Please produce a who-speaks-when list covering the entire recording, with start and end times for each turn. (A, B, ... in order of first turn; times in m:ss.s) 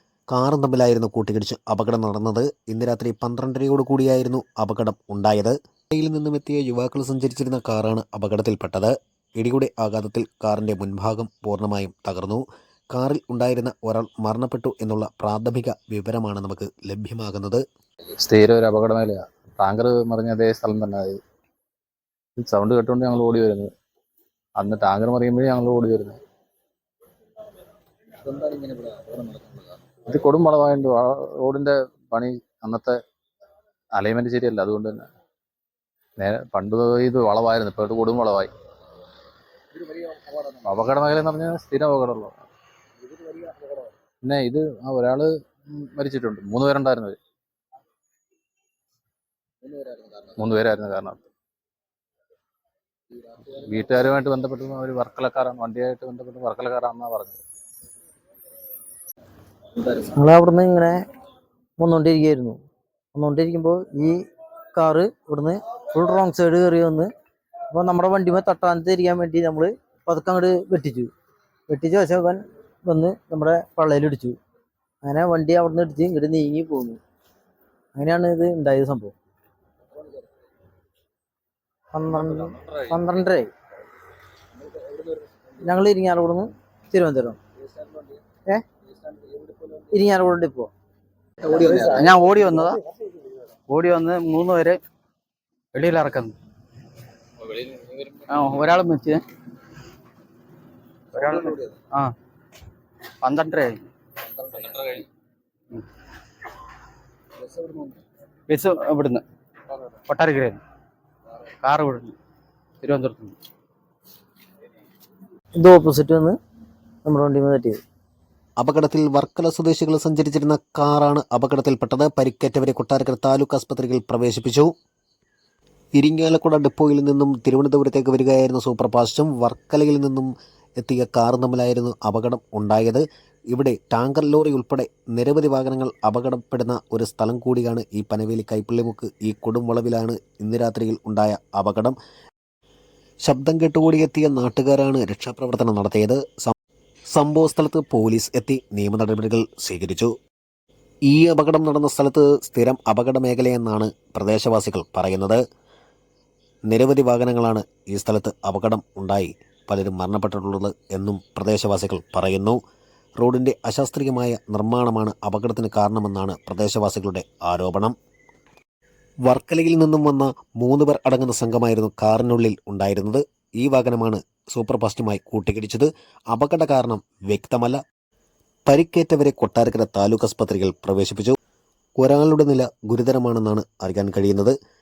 0:00.3-0:17.6 A
0:18.2-0:21.2 B
0:22.4-0:23.7 B
0:24.6-0:26.2 B
0:28.2-0:33.0 B
0:33.9-0:35.1 B
0:36.2-0:38.5 B
0:40.0-0:42.4 B
0:44.2-0:47.2 B
0:49.8-0:51.2 B
0:53.4-0:57.4 B
0:59.9-1:01.0 C
1:01.8-1:02.6 C
1:03.1-1:04.2 C
1:04.7-1:07.1 C
1:07.7-1:11.1 C
1:11.7-1:14.4 C
1:15.0-1:17.0 C
1:17.9-1:19.1 C
1:21.9-1:23.5 C
1:22.5-1:22.8 B
1:25.6-1:27.4 C
1:29.9-1:30.7 C
1:31.5-1:32.8 D
1:33.7-1:34.8 D
1:35.7-1:36.3 D
1:37.6-1:39.2 D
1:41.1-1:42.1 D
1:43.2-1:43.8 D
1:44.5-1:45.0 D
1:48.5-1:49.2 D
1:50.1-1:50.6 D
1:51.6-1:52.1 D
1:52.8-1:53.3 D
1:55.6-1:56.4 C
1:57.0-1:57.8 C
1:58.6-2:04.7 A
2:06.0-2:22.0 A
2:23.2-2:26.5 A
2:27.1-2:30.1 A
2:31.1-2:35.4 A
2:36.7-2:42.6 A
2:43.2-2:47.9 A
2:49.3-2:57.8 A
2:58.7-3:01.4 A
3:02.0-3:04.5 A